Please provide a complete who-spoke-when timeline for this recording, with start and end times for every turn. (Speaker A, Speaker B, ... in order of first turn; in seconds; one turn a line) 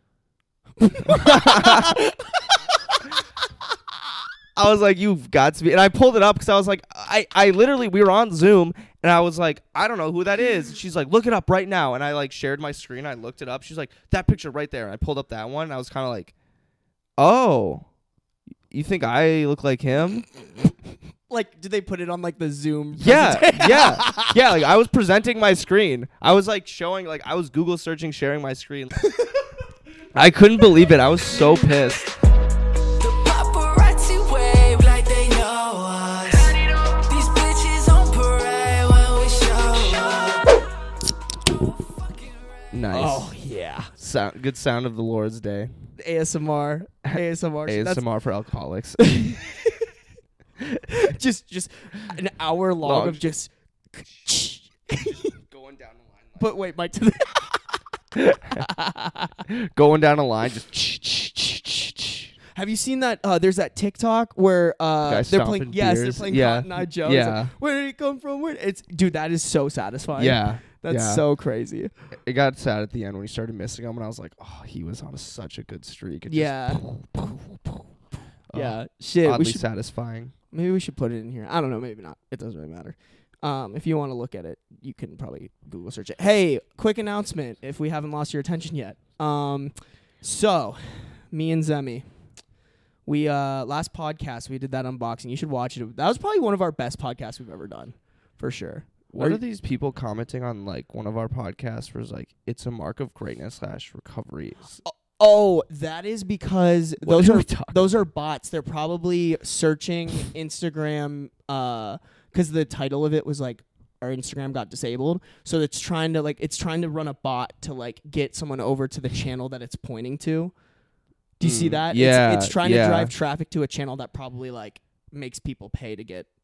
Speaker A: 0.8-3.0
Speaker B: 1.0-2.0
Speaker B: 4.5-16.3
Speaker B: 17.2-17.9
Speaker B: 18.7-20.2
Speaker A: 21.3-24.4
Speaker B: 23.0-29.0
Speaker B: 30.1-32.1
Speaker C: 33.0-40.6
Speaker C: 41.6-42.6
Speaker B: 42.7-43.3
Speaker A: 42.9-43.9
Speaker B: 44.0-45.7
Speaker A: 46.0-48.0
Speaker B: 47.0-49.4
Speaker A: 49.1-49.9
Speaker A: 50.9-55.3
Speaker B: 52.8-53.2
Speaker B: 55.5-56.4
Speaker A: 56.4-57.8
Speaker B: 58.3-58.6
Speaker A: 58.4-59.4
Speaker B: 59.5-62.3
Speaker A: 62.5-71.9
Speaker B: 65.0-67.5
Speaker B: 70.1-71.2
Speaker B: 72.1-77.4
Speaker A: 76.3-76.8
Speaker B: 78.5-80.3
Speaker A: 78.5-79.6
Speaker A: 80.5-92.0
Speaker A: 93.0-99.4
Speaker B: 99.1-104.8
Speaker A: 104.8-120.5
Speaker B: 107.0-107.9
Speaker A: 121.4-126.3
Speaker B: 121.4-123.1